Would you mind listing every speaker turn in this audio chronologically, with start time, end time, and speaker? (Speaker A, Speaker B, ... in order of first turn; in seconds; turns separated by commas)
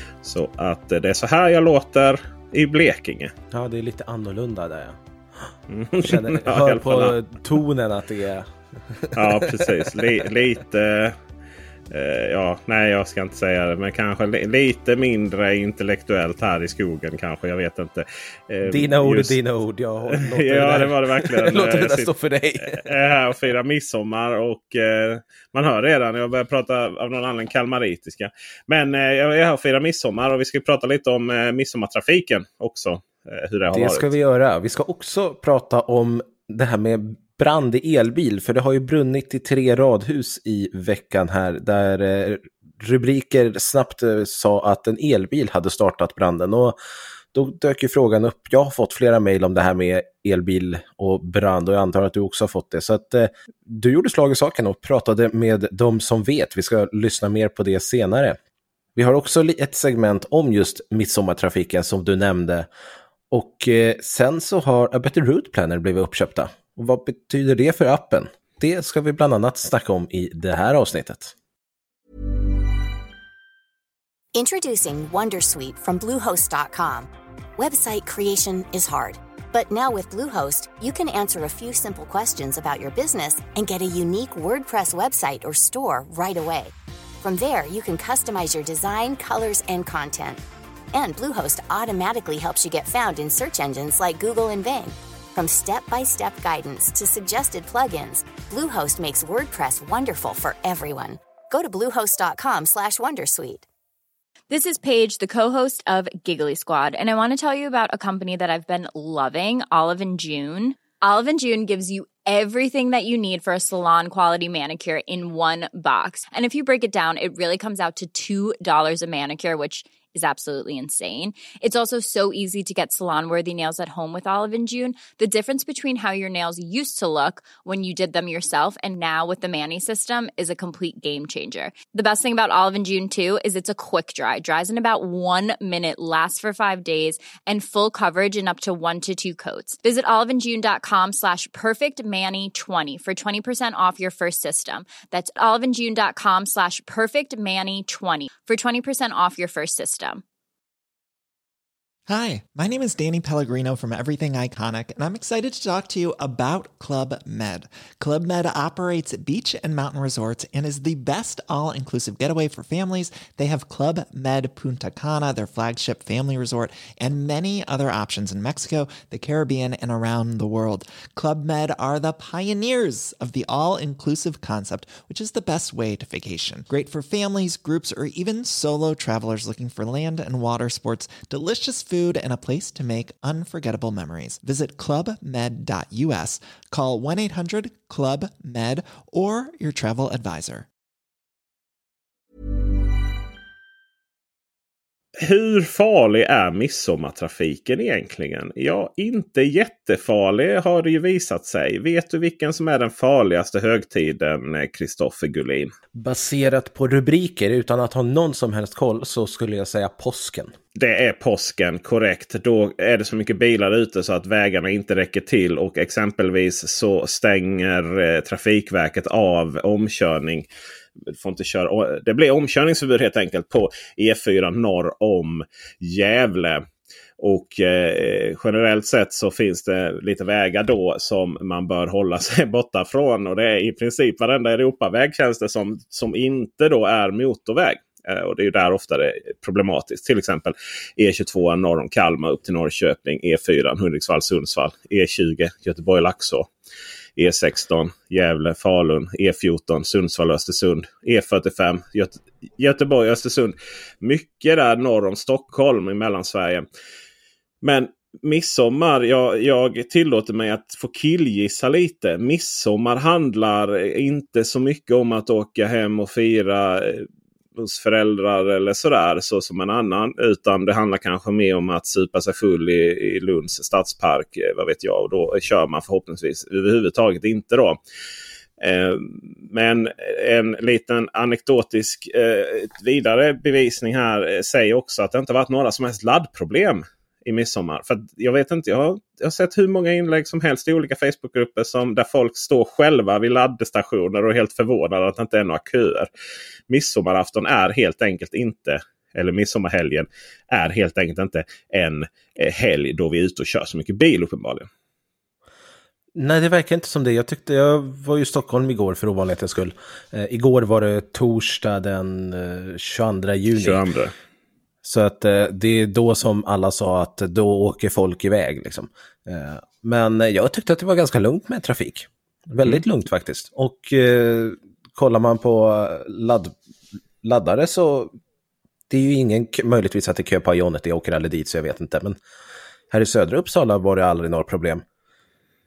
Speaker A: 0.2-3.3, Speaker B: 3.5-5.0, Speaker A: 5.7-7.2, Speaker B: 6.0-10.0, Speaker A: 9.2-11.2, Speaker A: 11.9-19.4, Speaker B: 18.6-22.9, Speaker A: 20.1-34.1, Speaker B: 33.7-46.8, Speaker B: 47.3-58.4, Speaker B: 59.0-62.7, Speaker B: 63.3-71.3, Speaker C: 74.3-90.4, Speaker C: 90.9-103.7, Speaker D: 104.5-150.2, Speaker E: 152.1-190.7, Speaker A: 195.2-205.7, Speaker B: 205.9-210.5, Speaker A: 210.7-220.5, Speaker A: 221.1-226.6, Speaker A: 227.2-246.5, Speaker A: 247.2-256.7, Speaker A: 257.6-277.8, Speaker A: 278.6-296.1, Speaker A: 296.7-304.7, Speaker B: 306.1-313.8, Speaker A: 313.5-314.1, Speaker B: 314.8-326.5, Speaker B: 327.2-328.1, Speaker B: 328.9-332.1, Speaker B: 332.9-334.8